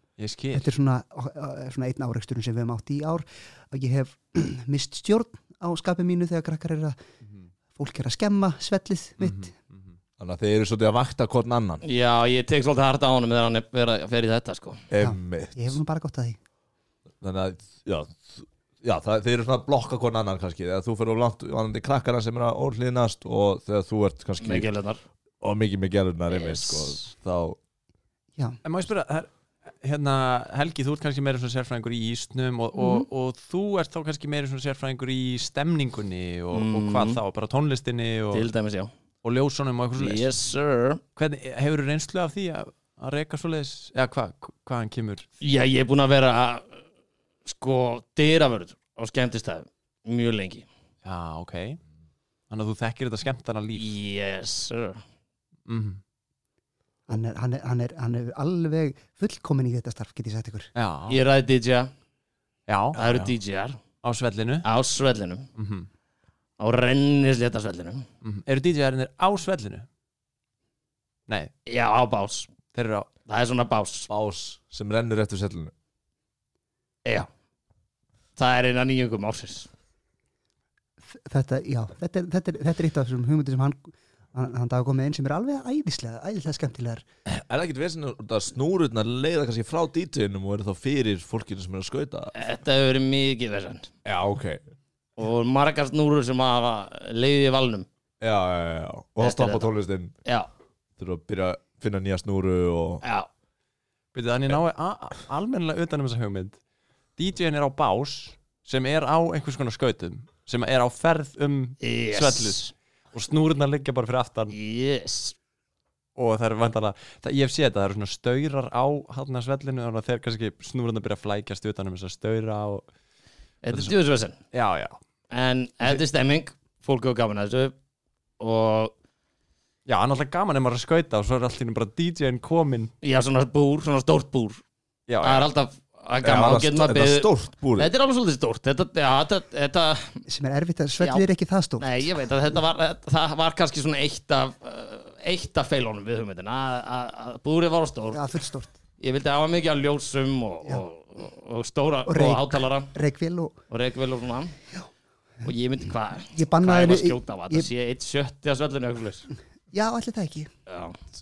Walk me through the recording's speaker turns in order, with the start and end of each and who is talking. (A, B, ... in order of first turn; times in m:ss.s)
0:00.2-0:00.7 A
0:00.5-0:07.0 B
0:07.2-0:07.5 A
0:07.8-0:09.5 B
0:09.2-0:09.9 A
0:10.2-0:11.8 C
0:11.8-0:14.9 D
0:14.9-0:15.8 C
0:15.0-0:16.4 B
0:17.2-0:24.7 C
0:24.4-0:25.0 D
0:25.4-0:27.6 C
0:26.4-0:26.9 D
0:28.6-0:29.3 A
0:29.8-0:38.5 A
0:32.8-0:33.0 D
0:36.5-0:37.2 D
0:38.3-0:38.9 D
0:39.2-0:40.3 A
0:40.0-0:41.0 D
0:41.2-0:45.2 A
0:45.4-0:46.8 D
0:47.5-0:50.7 D
0:51.0-0:51.8 A
0:52.5-0:53.9 A
0:53.8-0:55.0 D
0:55.7-0:56.0 A
0:57.1-1:00.7 B
1:00.8-1:01.2 A
1:01.1-1:01.9 D
1:02.7-1:03.0 A
1:03.0-1:03.8 D
1:04.0-1:04.6 A
1:04.6-1:05.5 D
1:05.6-1:05.9 A
1:06.6-1:08.0 D
1:08.2-1:09.9 A
1:11.7-1:12.5 D
1:12.7-1:13.1 A
1:13.3-1:14.1 D
1:14.1-1:15.7 C
1:18.4-1:19.7 D
1:21.1-1:27.0 B
1:27.3-1:32.3 C
1:32.3-1:33.9 D
1:34.0-1:34.6 C
1:35.2-1:37.9 D
1:38.2-1:40.1 C
1:39.2-1:39.7 D
1:41.0-1:43.0 C
1:43.0-1:43.3 D
1:44.1-1:46.6 A
1:47.2-1:54.6 A
1:51.8-1:52.7 D
1:54.5-1:55.4 D
1:56.2-2:02.9 A
2:03.6-2:04.4 D
2:04.5-2:05.0 A
2:05.3-2:07.7 D
2:08.4-2:08.9 D
2:09.9-2:12.9 A
2:13.0-2:14.6 D
2:15.1-2:15.5 A
2:15.2-2:20.2 D
2:16.2-2:17.9 C
2:20.3-2:21.9 B
2:21.8-2:28.3 D
2:28.1-2:28.8 B
2:29.0-2:32.9 D
2:32.1-2:33.6 B
2:33.7-2:34.6 D
2:35.4-2:39.3 D
2:36.3-2:37.7 B
2:39.7-2:40.5 B
2:40.7-2:41.0 D